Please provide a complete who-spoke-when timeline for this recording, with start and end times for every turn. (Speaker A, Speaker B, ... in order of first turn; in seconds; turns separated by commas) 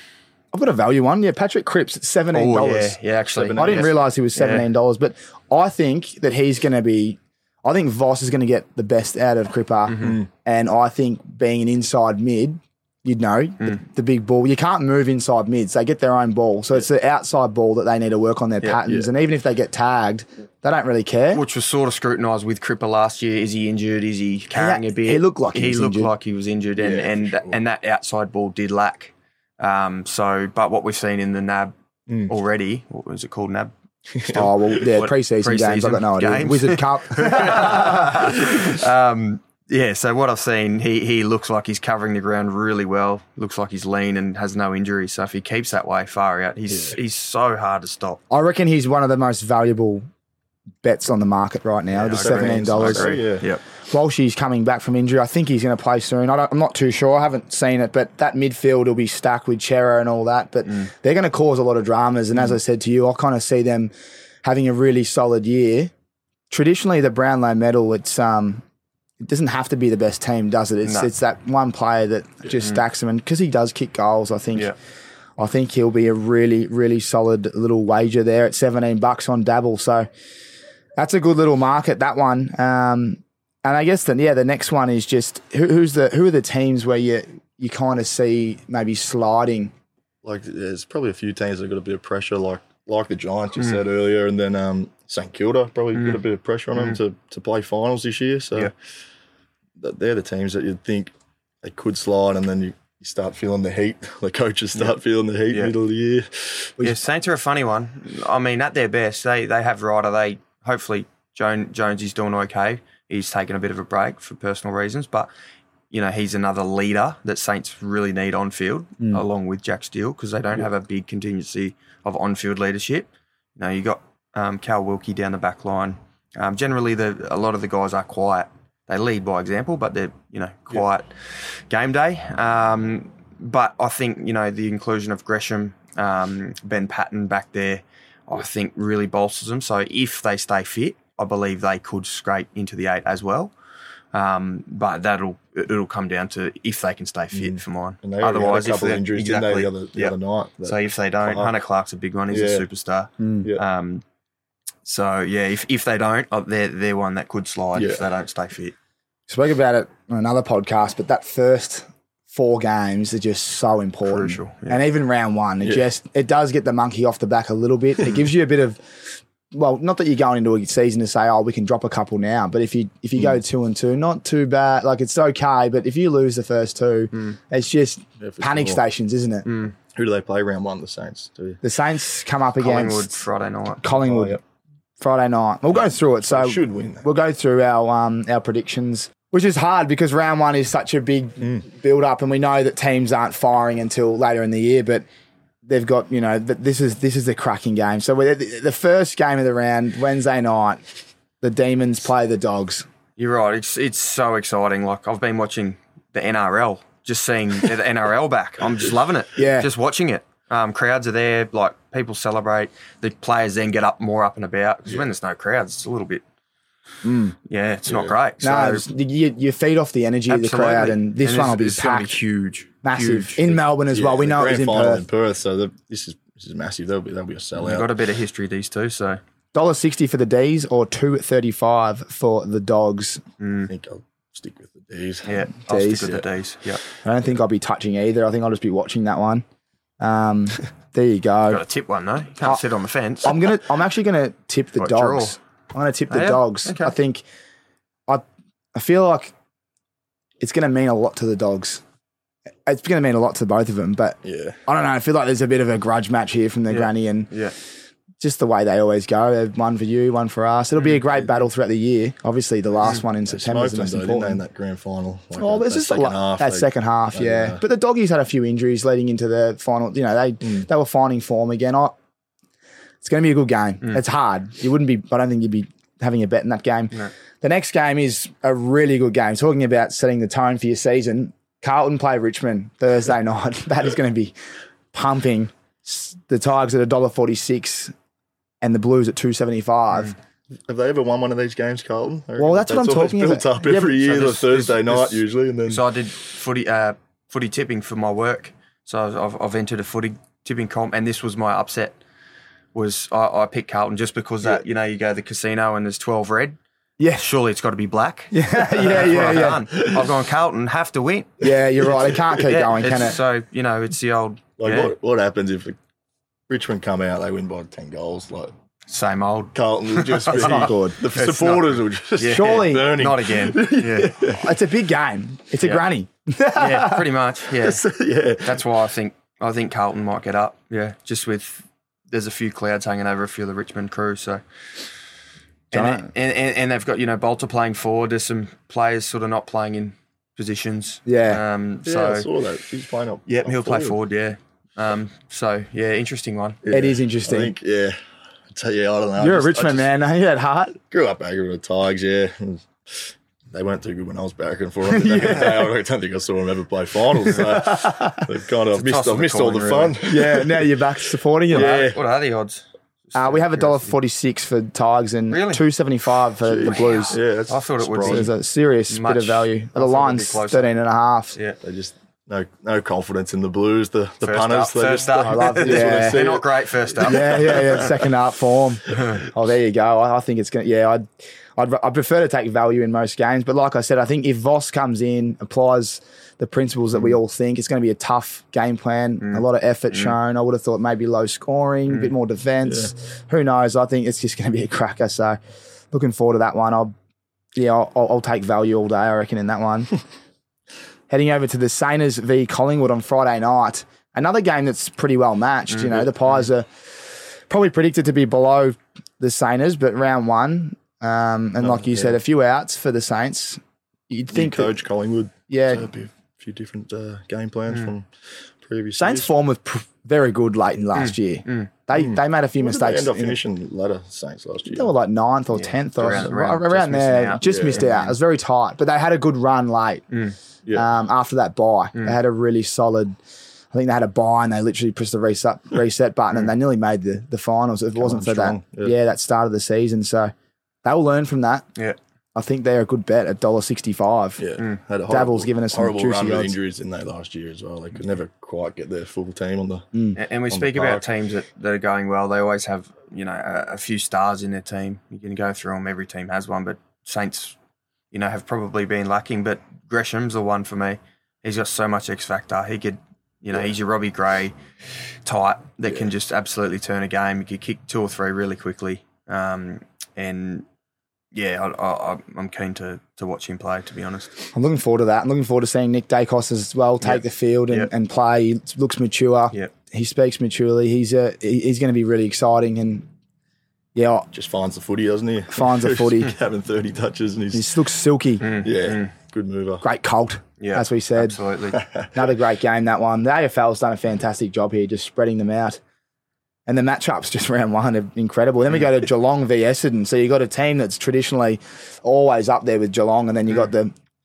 Speaker A: 0.5-3.0, Speaker B: 2.3-4.7, Speaker C: 3.4-3.9, Speaker A: 3.5-21.4, Speaker B: 9.9-10.2, Speaker C: 10.0-10.3, Speaker C: 18.8-19.1, Speaker B: 21.3-31.7, Speaker A: 24.5-26.1, Speaker C: 26.8-27.6, Speaker B: 32.3-48.2, Speaker C: 34.1-34.5, Speaker A: 34.3-38.2, Speaker C: 46.7-47.0, Speaker A: 48.3-50.0, Speaker A: 50.8-53.2, Speaker B: 52.0-53.6, Speaker C: 52.0-53.5, Speaker A: 53.8-63.9, Speaker A: 64.4-65.9, Speaker A: 66.5-68.6, Speaker A: 69.2-74.7, Speaker B: 70.8-71.1, Speaker A: 75.4-80.1, Speaker A: 81.0-89.7, Speaker C: 90.2-98.7, Speaker C: 99.8-106.7, Speaker B: 106.8-115.3, Speaker B: 115.9-143.5, Speaker B: 144.1-154.0, Speaker C: 147.3-151.5, Speaker C: 152.3-152.7, Speaker A: 153.2-153.5, Speaker B: 154.8-158.7, Speaker C: 157.7-158.1, Speaker A: 159.3-179.5, Speaker B: 164.0-164.8, Speaker C: 165.6-165.9, Speaker C: 178.2-178.8, Speaker B: 179.4-179.7, Speaker C: 179.9-181.6, Speaker A: 181.6-183.1, Speaker B: 182.6-183.8, Speaker A: 183.8-184.4, Speaker C: 183.8-184.4, Speaker A: 185.0-195.0, Speaker C: 186.2-187.1, Speaker A: 195.7-200.8, Speaker A: 201.4-202.8, Speaker B: 203.2-216.2, Speaker A: 209.3-209.7, Speaker A: 217.0-217.3, Speaker B: 217.4-218.8, Speaker C: 217.8-218.2, Speaker A: 218.4-222.2, Speaker B: 220.3-223.6, Speaker A: 222.8-225.0, Speaker C: 223.9-227.9, Speaker B: 227.6-229.2, Speaker A: 229.5-233.2, Speaker B: 233.4-233.7, Speaker C: 233.7-235.4, Speaker B: 235.2-236.8, Speaker A: 235.7-236.2, Speaker A: 237.0-239.4, Speaker A: 240.0-241.6, Speaker B: 241.5-243.5, Speaker A: 243.2-247.2, Speaker B: 244.8-245.4, Speaker B: 246.1-246.9, Speaker A: 248.7-249.3, Speaker A: 250.4-251.8, Speaker A: 252.7-257.3, Speaker C: 254.2-254.6, Speaker B: 256.7-257.5, Speaker A: 258.2-264.4, Speaker C: 263.2-267.6, Speaker A: 265.4-271.9, Speaker A: 273.0-284.3, Speaker A: 284.9-287.9, Speaker A: 288.6-290.1, Speaker C: 290.7-295.8, Speaker A: 292.4-293.9, Speaker B: 293.8-301.9, Speaker B: 302.7-306.6, Speaker A: 307.0-307.3, Speaker B: 307.1-311.5, Speaker A: 308.3-309.7, Speaker C: 309.7-310.1, Speaker A: 311.4-313.2, Speaker B: 312.4-314.9, Speaker C: 314.6-315.8, Speaker C: 316.5-318.5, Speaker B: 318.9-324.2, Speaker C: 319.5-324.5, Speaker A: 320.3-321.0, Speaker A: 322.2-323.0, Speaker A: 324.3-327.1, Speaker B: 326.5-327.9, Speaker C: 327.5-328.7, Speaker B: 328.4-334.4, Speaker B: 335.7-342.3, Speaker A: 335.7-336.1, Speaker A: 341.1-341.4, Speaker C: 341.8-344.0, Speaker B: 343.3-346.6, Speaker C: 346.6-348.0, Speaker A: 346.7-347.5, Speaker C: 348.5-349.9, Speaker A: 349.2-350.8, Speaker C: 350.9-360.8, Speaker A: 354.9-355.6, Speaker A: 357.3-358.2, Speaker B: 358.7-360.0, Speaker A: 360.0-361.8, Speaker C: 361.5-362.0, Speaker B: 361.5-363.9, Speaker A: 363.1-367.2, Speaker B: 365.3-365.6, Speaker C: 366.4-368.3, Speaker B: 366.7-368.3, Speaker A: 368.0-371.4, Speaker B: 368.9-370.7, Speaker C: 371.6-378.0, Speaker B: 374.2-377.9, Speaker A: 375.2-376.2, Speaker A: 377.0-381.1, Speaker A: 381.6-395.4, Speaker B: 389.2-390.1, Speaker A: 395.9-396.9, Speaker A: 397.6-399.9, Speaker A: 401.1-406.7, Speaker B: 405.8-406.0, Speaker A: 407.5-414.8, Speaker C: 411.6-412.1, Speaker C: 414.3-419.3, Speaker A: 415.5-415.9, Speaker A: 419.0-423.4, Speaker B: 420.9-421.7, Speaker C: 421.9-424.9, Speaker A: 424.7-430.1, Speaker B: 425.5-428.1, Speaker C: 426.0-426.3, Speaker C: 427.4-427.9, Speaker B: 430.1-430.4, Speaker A: 430.7-433.1, Speaker A: 433.7-440.3, Speaker C: 437.9-438.9, Speaker A: 440.8-441.6, Speaker A: 442.4-444.4, Speaker C: 444.4-449.9, Speaker A: 445.1-446.5, Speaker B: 450.1-457.6, Speaker C: 450.5-451.1, Speaker B: 458.1-464.5, Speaker B: 465.2-470.6, Speaker B: 471.3-474.4, Speaker A: 474.5-483.1, Speaker B: 477.0-477.9, Speaker A: 483.9-484.3, Speaker C: 484.3-487.7, Speaker A: 485.5-486.3, Speaker A: 487.5-488.5, Speaker B: 488.4-489.1, Speaker C: 488.4-489.8, Speaker A: 489.8-491.4, Speaker B: 490.6-491.8, Speaker C: 491.7-492.3, Speaker A: 492.1-495.8, Speaker A: 496.7-503.9